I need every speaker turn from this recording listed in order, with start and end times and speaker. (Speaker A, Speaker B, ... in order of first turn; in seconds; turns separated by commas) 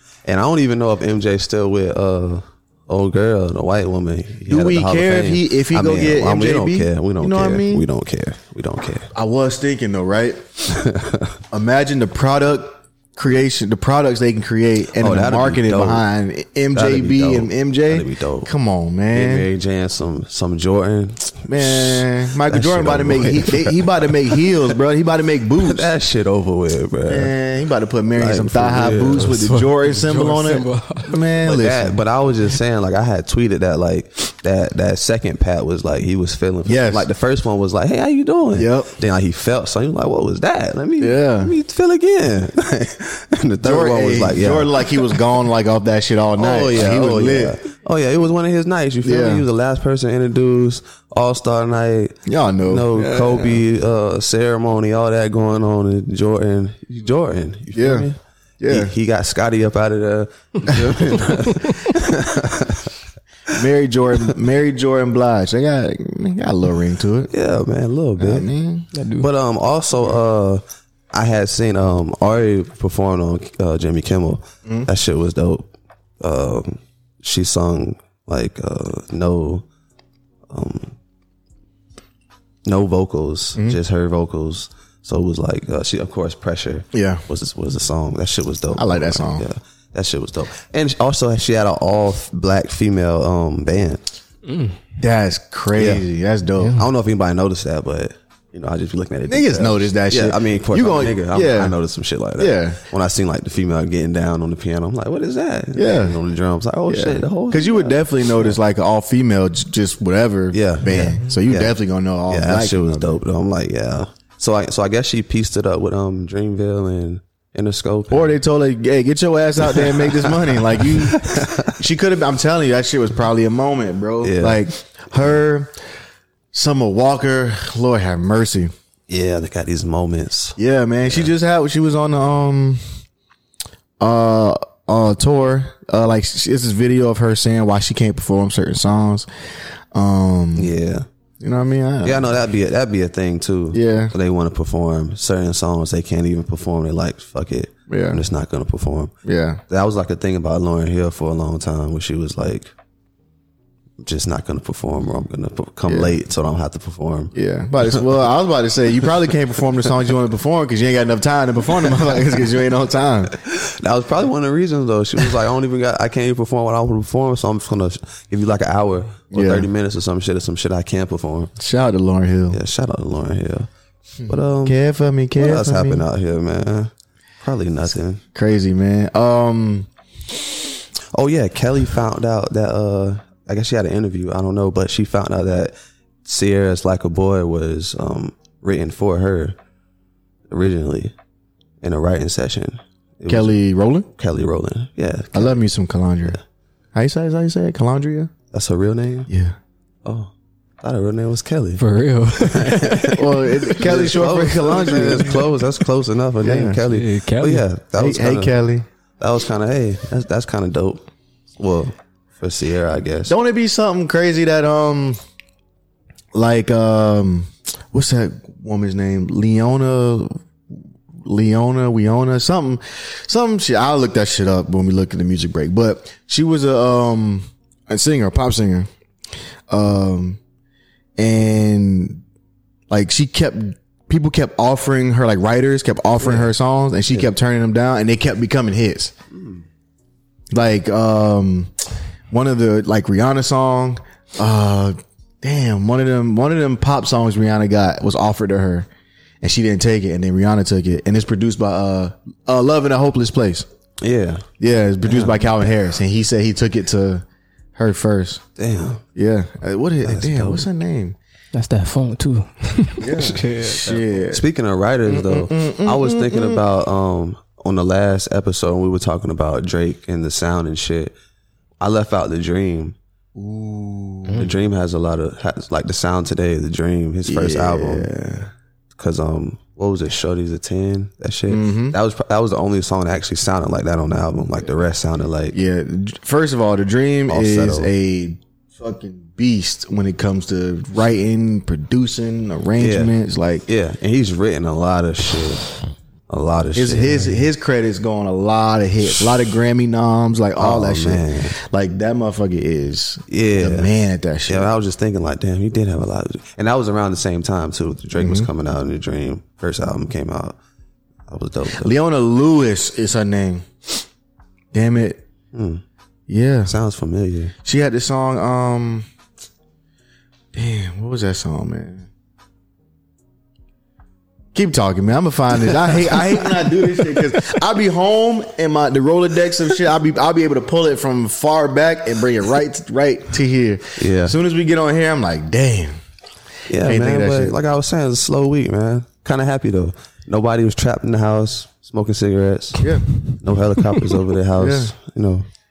Speaker A: 0.2-9.1, Speaker B: 4.5-7.8, Speaker B: 9.2-10.4, Speaker A: 10.7-11.4, Speaker B: 11.5-19.5, Speaker A: 15.0-16.1, Speaker A: 16.7-18.5, Speaker A: 19.1-24.5, Speaker B: 21.5-25.9, Speaker A: 25.6-27.3, Speaker B: 27.1-31.9, Speaker A: 28.1-29.4, Speaker C: 29.4-31.1, Speaker A: 31.4-45.2, Speaker B: 36.7-37.1, Speaker B: 38.5-38.9, Speaker B: 41.0-41.5, Speaker B: 43.6-47.6, Speaker A: 46.4-62.9, Speaker B: 49.0-49.4, Speaker B: 52.3-53.6, Speaker B: 57.7-58.1, Speaker B: 58.6-58.9, Speaker B: 63.5-67.3, Speaker A: 67.3-68.5, Speaker B: 68.2-68.9, Speaker C: 68.9-69.3, Speaker A: 69.2-75.7, Speaker A: 76.2-79.6, Speaker A: 80.5-80.9, Speaker A: 82.7-94.2, Speaker B: 86.9-87.2, Speaker B: 88.8-89.5, Speaker C: 94.5-94.8, Speaker B: 95.0-96.8, Speaker A: 95.7-96.0, Speaker C: 96.6-96.8, Speaker A: 96.8-108.6, Speaker B: 99.3-101.8, Speaker B: 102.4-102.8, Speaker B: 105.8-106.2, Speaker B: 106.9-113.1, Speaker A: 110.5-111.8, Speaker A: 112.3-118.4, Speaker B: 118.1-125.7, Speaker A: 119.6-121.8, Speaker A: 124.2-124.8, Speaker B: 126.5-128.7, Speaker A: 129.1-131.3, Speaker B: 130.6-132.8, Speaker B: 134.0-139.3, Speaker B: 139.9-140.7, Speaker A: 140.6-141.1, Speaker B: 141.4-142.3, Speaker A: 142.0-149.1, Speaker B: 143.7-144.1, Speaker B: 147.9-148.2, Speaker B: 149.2-149.6, Speaker A: 149.7-152.7, Speaker A: 154.0-157.3, Speaker B: 155.9-156.2, Speaker B: 157.3-163.3, Speaker A: 163.4-171.5, Speaker B: 169.3-169.7, Speaker B: 171.6-172.6, Speaker A: 172.5-173.7, Speaker B: 174.2-176.0, Speaker A: 174.3-174.8, Speaker A: 175.3-178.2, Speaker B: 178.3-179.9, Speaker A: 181.1-189.6, Speaker A: 190.5-191.2, Speaker A: 191.8-193.6, Speaker B: 193.3-194.1, Speaker A: 194.2-195.6, Speaker B: 195.3-196.4, Speaker B: 196.9-198.3, Speaker A: 198.5-199.3, Speaker B: 199.3-199.6, Speaker A: 200.1-201.9, Speaker C: 201.8-203.1, Speaker A: 202.4-208.6, Speaker B: 203.1-205.4, Speaker B: 206.4-206.8, Speaker C: 206.9-207.7, Speaker B: 208.0-208.9, Speaker A: 209.2-211.0, Speaker A: 211.6-213.3, Speaker B: 213.3-215.2, Speaker B: 216.3-220.4, Speaker B: 221.2-228.9, Speaker B: 229.7-230.4, Speaker B: 231.2-232.2, Speaker B: 232.9-239.1, Speaker A: 236.2-236.5, Speaker A: 239.3-239.6, Speaker B: 240.5-241.7, Speaker B: 242.3-248.9, Speaker B: 249.4-253.7, Speaker A: 254.0-254.5, Speaker B: 254.6-257.2, Speaker B: 257.8-258.4, Speaker A: 258.6-259.0, Speaker B: 259.1-261.2, Speaker A: 260.0-260.7, Speaker C: 261.5-264.1, Speaker B: 263.0-264.4, Speaker A: 264.3-271.1, Speaker B: 265.1-266.6, Speaker A: 271.8-272.9, Speaker B: 273.4-274.4, Speaker A: 274.4-278.1, Speaker B: 277.3-278.5, Speaker A: 279.0-285.6, Speaker B: 281.5-282.0, Speaker B: 285.5-293.6, Speaker A: 287.3-287.9, Speaker A: 292.8-293.1, Speaker A: 293.7-295.7, Speaker A: 296.3-297.2, Speaker B: 296.8-304.7, Speaker A: 300.6-301.5, Speaker A: 303.3-303.9, Speaker A: 304.5-310.6, Speaker B: 308.2-308.5, Speaker A: 311.3-311.9, Speaker B: 311.8-313.7, Speaker B: 314.7-315.2, Speaker A: 315.5-315.8, Speaker B: 316.3-316.7, Speaker A: 316.7-317.6, Speaker B: 317.6-319.1, Speaker B: 320.5-322.1, Speaker B: 324.5-336.0, Speaker A: 325.8-327.2, Speaker A: 334.0-334.3, Speaker A: 336.7-342.9, Speaker B: 336.8-337.6, Speaker B: 342.8-343.1, Speaker A: 343.4-345.5, Speaker B: 344.6-344.9